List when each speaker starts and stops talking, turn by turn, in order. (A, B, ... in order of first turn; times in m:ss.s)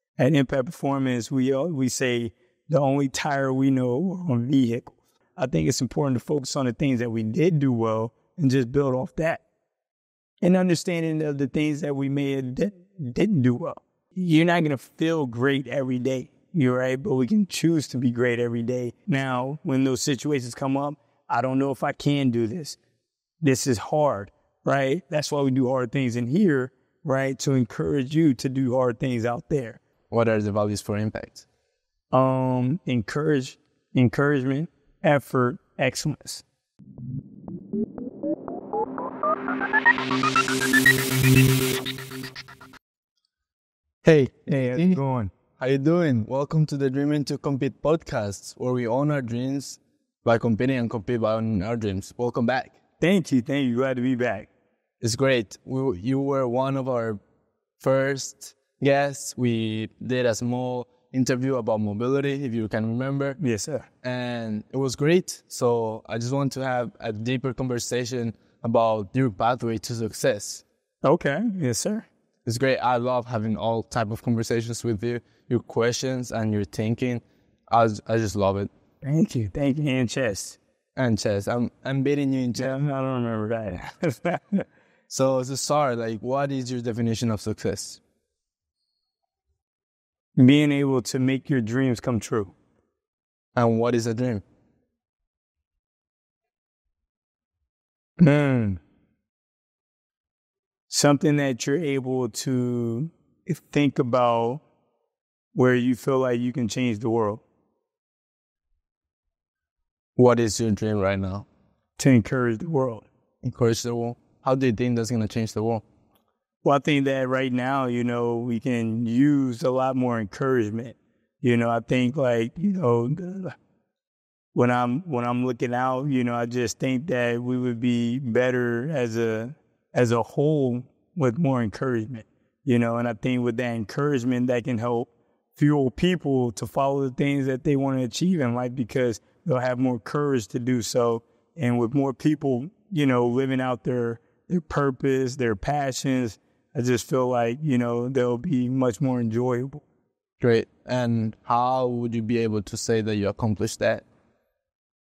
0:00.2-0:09.4 A
0:10.4-0:22.8 A
0:23.4-0:29.8 A
0:30.1-0:31.4 B
0:32.1-0:36.4 A
0:44.0-0:45.0 B
0:44.5-0:45.3 A
0:45.6-0:52.8 B
0:53.0-0:54.5 A
0:55.0-0:57.2 B
0:57.8-1:03.4 B
1:03.4-1:03.8 A
1:04.0-1:10.6 B
1:11.0-1:12.0 A
1:12.4-1:18.7 B
1:19.0-1:20.6 A
1:21.0-1:22.7 B
1:22.5-1:24.6 A
1:25.1-1:28.0 B
1:30.4-1:32.5 A
1:33.6-1:34.4 B
1:38.2-1:38.8 A
1:40.9-1:44.6 A
1:45.5-1:47.4 A
1:50.2-1:51.5 B
1:52.0-1:53.0 A
1:53.4-1:55.8 B
1:56.6-2:03.6 A
2:04.5-2:29.8 A
2:30.4-2:34.0 B